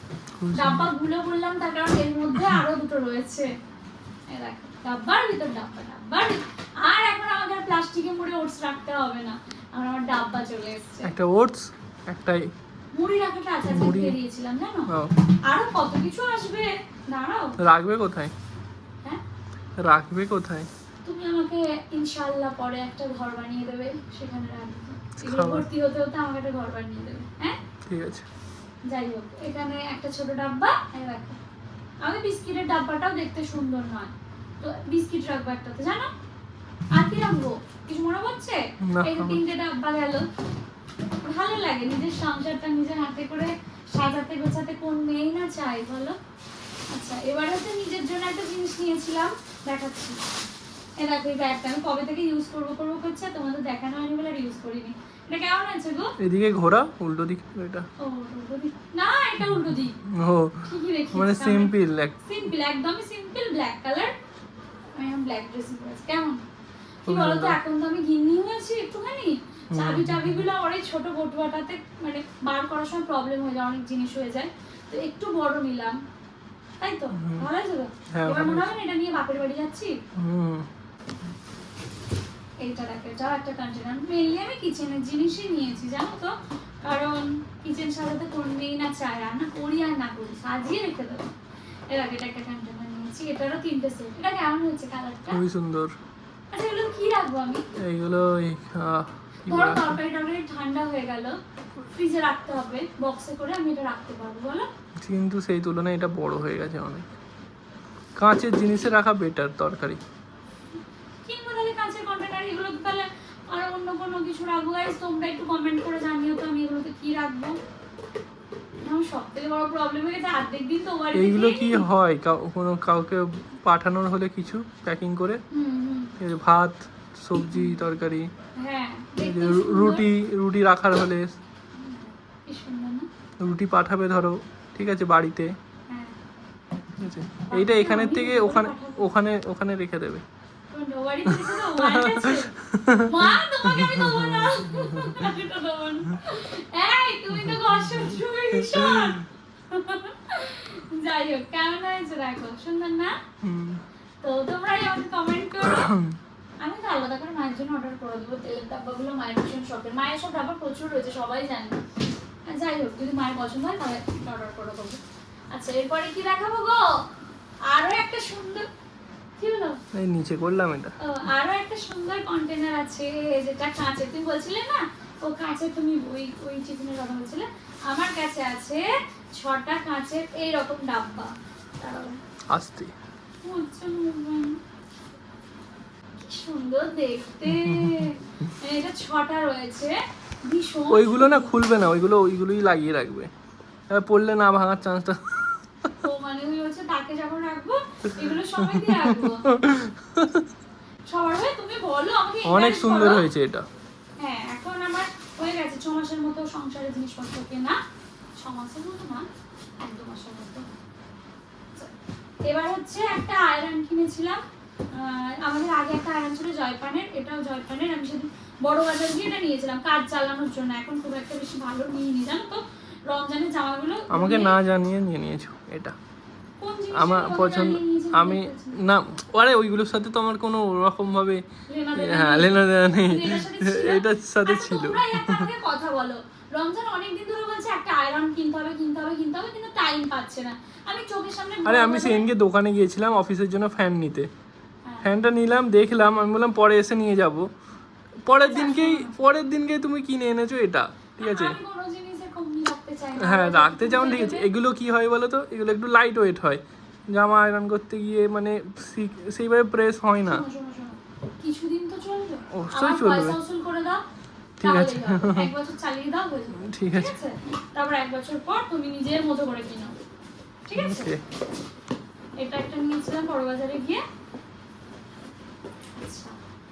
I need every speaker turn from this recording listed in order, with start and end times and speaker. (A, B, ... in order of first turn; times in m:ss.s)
0:00.4-0:00.9 A
0:00.5-0:03.5 B
0:04.3-0:11.1 B
0:11.0-0:12.5 A
0:12.9-0:14.9 B
0:13.7-0:14.2 A
0:14.9-0:15.2 A
0:15.4-0:17.6 B
0:17.6-0:18.3 A
0:19.8-0:20.7 A
0:21.0-0:27.6 B
0:25.2-0:25.7 A
0:27.9-0:28.3 A
0:28.9-0:31.4 B
0:32.0-0:36.1 B
0:36.9-0:40.3 B
0:38.8-0:39.4 A
0:41.2-0:46.2 B
0:46.9-0:50.2 B
0:51.0-0:56.1 B
0:56.2-0:57.9 A
0:58.0-1:00.0 B
0:59.5-1:02.2 A
1:00.6-1:04.2 B
1:04.9-1:06.4 B
1:07.1-1:16.0 B
1:07.1-1:07.6 A
1:09.7-1:10.4 A
1:16.8-1:20.0 B
1:17.2-1:17.5 A
1:18.1-1:18.7 A
1:20.2-1:20.7 A
1:22.6-1:31.2 B
1:31.9-1:35.4 B
1:35.3-1:36.0 A
1:36.5-1:37.6 B
1:37.8-1:40.0 A
1:39.5-1:44.7 B
1:45.0-1:47.1 A
1:48.2-1:50.0 A
1:51.2-1:57.6 B
1:58.8-2:01.8 B
2:01.1-2:05.4 A
2:05.5-2:06.1 B
2:06.2-2:08.3 A
2:07.5-2:07.8 B
2:08.6-2:10.1 B
2:09.2-2:11.4 A
2:11.7-2:13.1 B
2:13.4-2:15.6 A
2:15.9-2:16.2 B
2:17.0-2:20.2 A
2:17.5-2:19.0 B
2:20.7-2:33.2 B
2:21.3-2:25.3 A
2:27.9-2:29.2 A
2:33.4-2:33.8 A
2:34.2-2:35.9 B
2:35.7-2:36.2 A
2:36.6-2:41.8 B
2:42.5-2:45.0 B
2:45.5-2:47.0 B
2:47.7-2:48.7 B
2:49.4-2:49.8 B
2:49.9-2:51.0 A
2:51.0-3:02.2 B
3:02.5-3:02.9 A
3:03.4-3:04.6 B
3:06.2-3:11.5 B
3:07.5-3:08.1 A
3:10.9-3:13.3 A
3:13.9-3:15.9 A
3:16.0-3:19.5 B
3:18.6-3:20.4 A
3:21.1-3:23.2 B
3:22.4-3:23.7 A
3:24.2-3:27.8 B
3:28.4-3:29.2 B
3:29.8-3:30.7 B
3:32.5-3:34.4 B
3:34.9-3:44.6 B
3:44.1-3:46.0 A
3:46.6-3:48.8 B
3:47.0-3:51.4 A
3:51.7-4:02.3 B
3:52.0-3:55.5 A
4:01.6-4:04.3 A
4:05.0-4:07.5 A
4:08.3-4:11.6 A
4:08.3-4:09.2 B
4:11.2-4:14.5 B
4:13.2-4:20.5 A
4:20.2-4:24.0 B
4:22.5-4:23.4 A
4:24.6-4:25.5 A
4:24.6-4:30.0 B
4:26.6-4:27.2 A
4:30.7-4:31.1 B
4:30.8-4:31.2 A
4:32.4-4:34.0 B
4:35.9-4:36.4 B